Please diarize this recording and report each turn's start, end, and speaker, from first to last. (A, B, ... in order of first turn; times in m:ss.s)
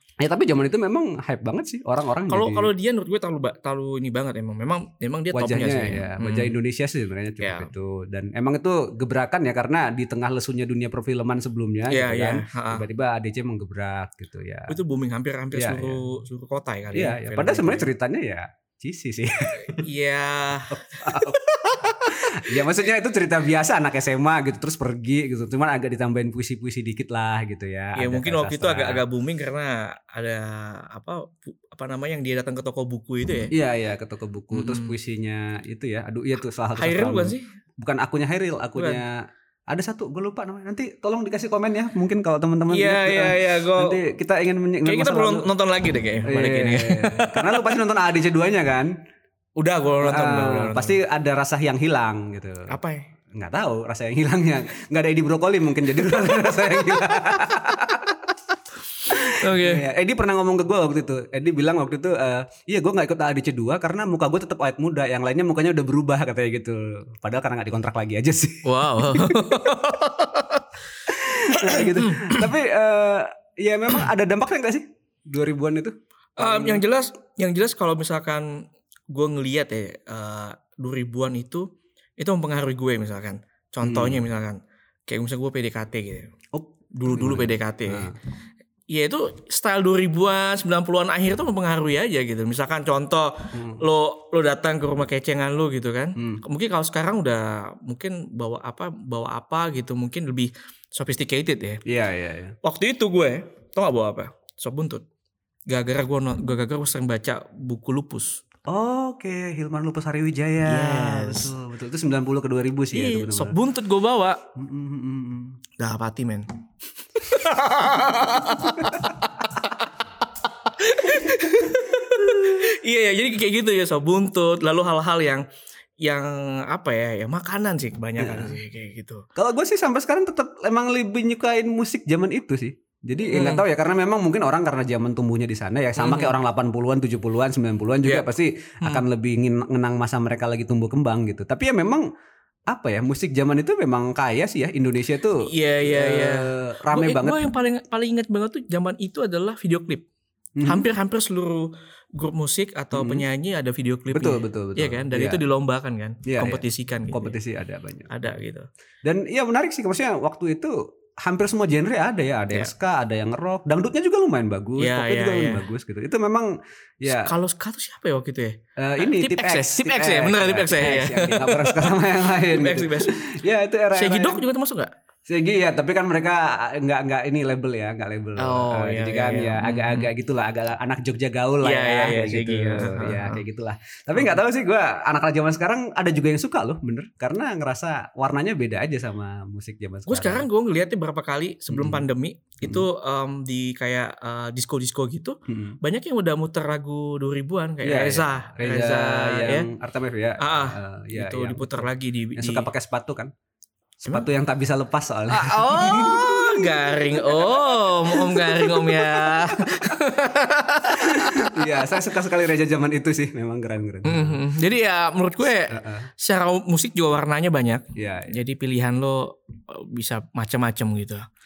0:00.2-0:02.7 A
0:02.3-0:06.6 B
0:05.3-0:14.8 A
0:07.4-0:07.7 B
0:11.9-0:12.8 B
0:14.7-0:17.9 B
0:15.5-0:16.0 A
0:16.9-0:19.8 A
0:19.8-0:22.0 B
0:20.7-0:29.0 A
0:28.0-0:33.5 B
0:33.5-0:45.4 A
0:34.5-0:34.9 B
0:36.8-0:37.4 B
0:38.8-0:39.0 B
0:42.7-0:44.0 B
0:44.8-0:47.8 B
0:46.2-0:48.9 A
0:49.6-0:51.0 B
0:50.0-0:52.7 A
0:52.7-0:53.0 B
0:53.4-0:58.2 A
0:59.1-1:09.6 A
0:59.4-0:59.8 B
1:08.6-1:10.7 B
1:11.1-1:16.8 A
1:11.6-1:12.5 B
1:16.4-1:26.3 B
1:23.8-1:24.2 A
1:26.5-1:28.2 A
1:27.0-1:28.1 B
1:28.9-1:41.8 B
1:33.5-1:33.8 A
1:36.2-1:36.4 A
1:41.8-1:42.6 A
1:42.6-1:45.0 B
1:45.7-1:48.4 B
1:48.7-1:53.6 A
1:50.7-1:51.5 B
1:52.9-1:54.4 B
1:54.6-1:55.6 A
1:55.8-1:56.4 B
1:57.2-1:59.9 B
2:00.8-2:05.4 B
2:06.0-2:09.2 B
2:08.2-2:08.6 A
2:09.3-2:22.0 A
2:13.2-2:13.6 B
2:16.0-2:16.4 B
2:18.0-2:18.3 B
2:22.7-2:27.4 A
2:25.5-2:30.0 B
2:30.6-2:30.8 A
2:30.6-2:37.4 B
2:32.9-2:33.2 A
2:34.1-2:35.4 A
2:36.2-2:38.1 A
2:38.1-2:38.7 B
2:39.0-2:46.5 A
2:44.8-2:45.7 B
2:47.0-2:47.3 A
2:47.0-2:53.2 B
2:48.8-2:54.4 A
2:53.9-2:54.9 B
2:55.3-3:10.4 A
2:58.4-3:00.1 B
3:01.6-3:03.4 B
3:10.1-3:19.7 B
3:11.7-3:12.0 A
3:15.5-3:15.8 A
3:17.8-3:21.8 A
3:20.4-3:22.7 B
3:22.4-3:23.3 A
3:24.0-3:29.6 A
3:25.3-3:31.6 B
3:30.9-3:34.4 A
3:34.0-3:41.2 B
3:35.7-3:36.1 A
3:37.9-3:38.3 A